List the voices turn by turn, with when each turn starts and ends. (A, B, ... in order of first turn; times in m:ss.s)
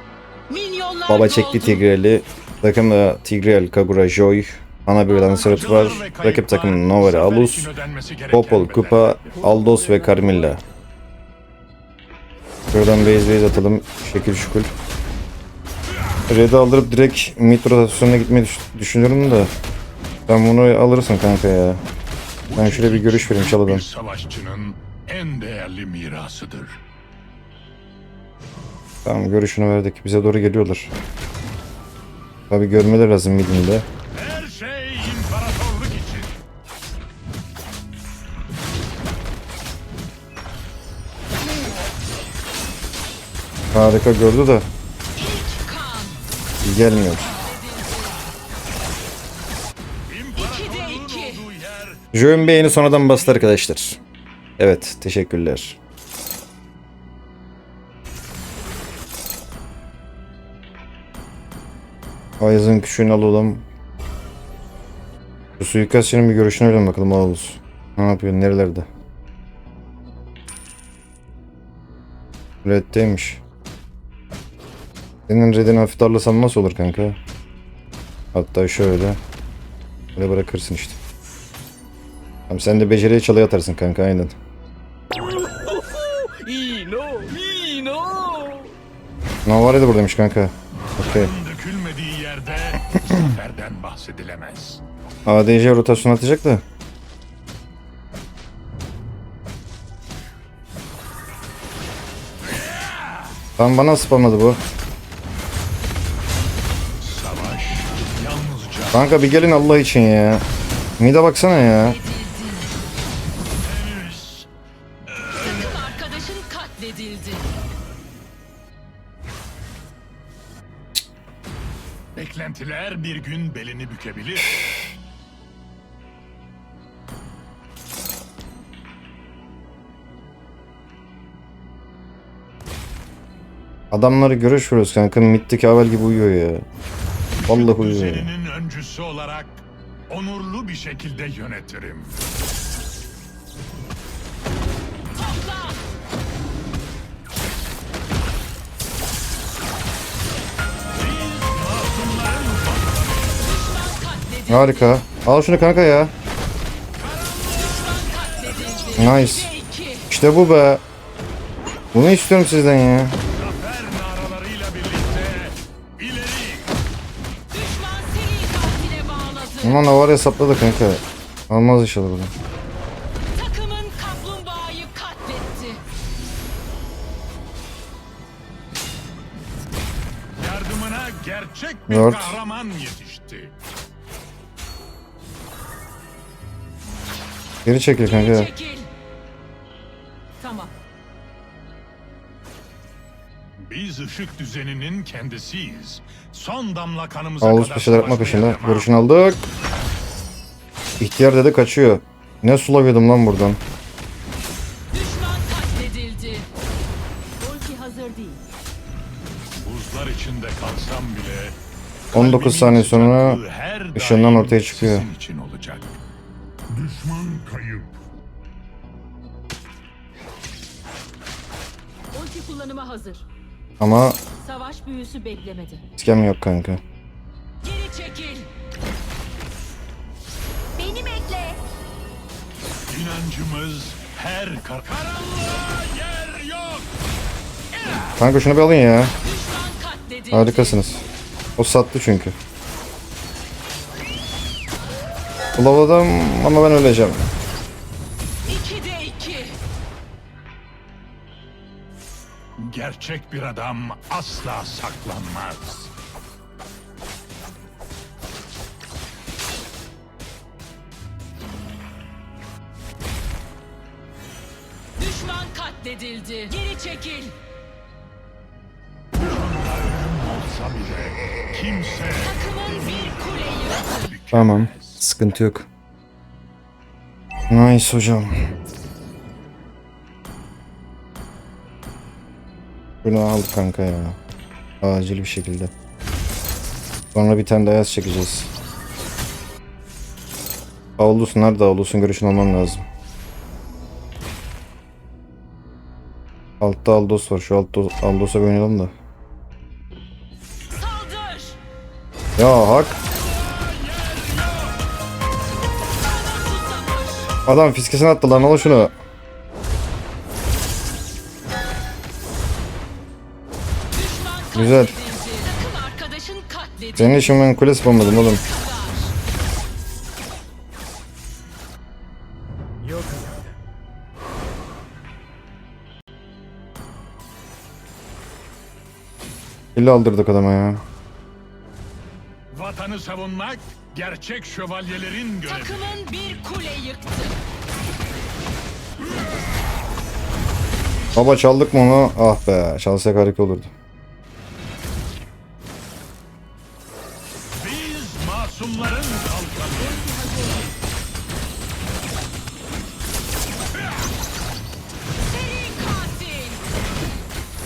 0:00.5-0:01.8 A
0:01.1-0:07.7 B
0:05.2-0:09.4 C
0:08.3-0:10.6 B
0:12.7-0:14.7 B
0:16.3-0:19.5 B
0:20.3-0:21.8 B
0:22.4-0:26.8 C
0:22.6-0:23.8 B
0:29.0-0:30.9 B
0:32.5-0:33.8 B
0:34.1-0:36.4 C
0:43.7-0:44.7 B
0:45.1-0:46.2 A
0:46.6-0:47.3 B
0:47.4-0:48.1 A
0:50.1-0:52.0 C
0:52.1-0:54.0 B
0:54.6-0:55.8 B
1:02.4-1:03.6 B
1:05.6-1:08.9 B
1:12.6-1:13.4 B
1:15.3-1:17.2 B
1:18.3-1:19.2 B
1:20.1-1:21.0 B
1:22.5-1:24.3 B
1:25.9-1:28.7 A
1:29.4-1:31.3 B
1:30.9-1:34.8 C
1:35.2-1:36.6 B
1:42.5-1:43.3 C
1:43.6-1:44.6 B
1:47.0-1:49.4 C
1:48.9-1:50.4 B
1:51.0-1:52.0 B
1:52.0-1:52.6 A
1:53.6-1:54.5 C
1:55.0-1:56.0 C
1:55.6-1:57.5 A
2:02.1-2:04.6 C
2:13.9-2:16.6 B
2:17.4-2:22.2 C
2:17.5-2:18.3 B
2:25.2-2:25.7 A
2:30.9-2:33.6 C
2:33.7-2:34.5 A
2:34.5-2:36.1 B
2:37.0-2:39.1 C
2:38.8-2:40.0 A
2:39.0-2:39.5 B
2:40.1-2:40.8 B
2:41.9-2:43.2 B
2:43.3-2:46.7 C
2:47.5-2:49.8 A
2:49.6-2:52.3 B
2:53.3-2:55.8 A
3:00.4-3:03.5 C
3:01.9-3:02.4 B
3:07.6-3:08.5 B
3:08.5-3:08.9 A
3:10.4-3:10.7 A
3:13.6-3:19.0 C
3:17.4-3:19.4 B
3:21.0-3:23.6 B
3:24.9-3:26.4 A
3:27.4-3:28.4 A
3:29.6-3:31.6 C
3:32.1-3:36.0 C
3:32.1-3:33.4 B
3:33.9-3:35.1 B
3:36.7-3:37.9 C
3:42.1-3:43.2 A
3:43.8-3:44.2 B
3:44.4-3:45.8 A
3:46.0-3:46.8 B
3:47.6-3:48.5 A
3:50.8-3:51.6 A
3:52.9-3:56.9 C
3:57.8-3:58.2 C
3:58.2-3:59.1 B
3:59.2-4:00.5 A
4:00.3-4:01.0 B
4:01.6-4:02.4 B
4:05.6-4:07.3 B
4:08.4-4:09.6 A
4:12.6-4:15.9 C
4:25.0-4:27.3 A
4:29.2-4:35.1 C
4:34.3-4:35.7 B
4:37.5-4:38.5 B
4:43.0-4:44.2 B
4:44.8-4:45.7 B
4:47.1-4:48.5 B
4:51.0-4:52.8 B
4:56.6-4:58.9 B
5:00.7-5:01.6 A
5:02.4-5:03.0 B
5:03.4-5:04.8 C
5:06.0-5:07.3 A
5:07.4-5:08.9 B
5:13.9-5:17.4 A
5:14.5-5:15.0 B
5:16.9-5:18.4 B
5:18.4-5:19.1 A
5:29.7-5:30.8 B
5:32.5-5:36.0 C
5:35.6-5:37.4 A
5:41.1-5:43.7 B
5:47.6-5:50.1 C
5:49.9-5:50.7 A
5:55.2-5:56.6 A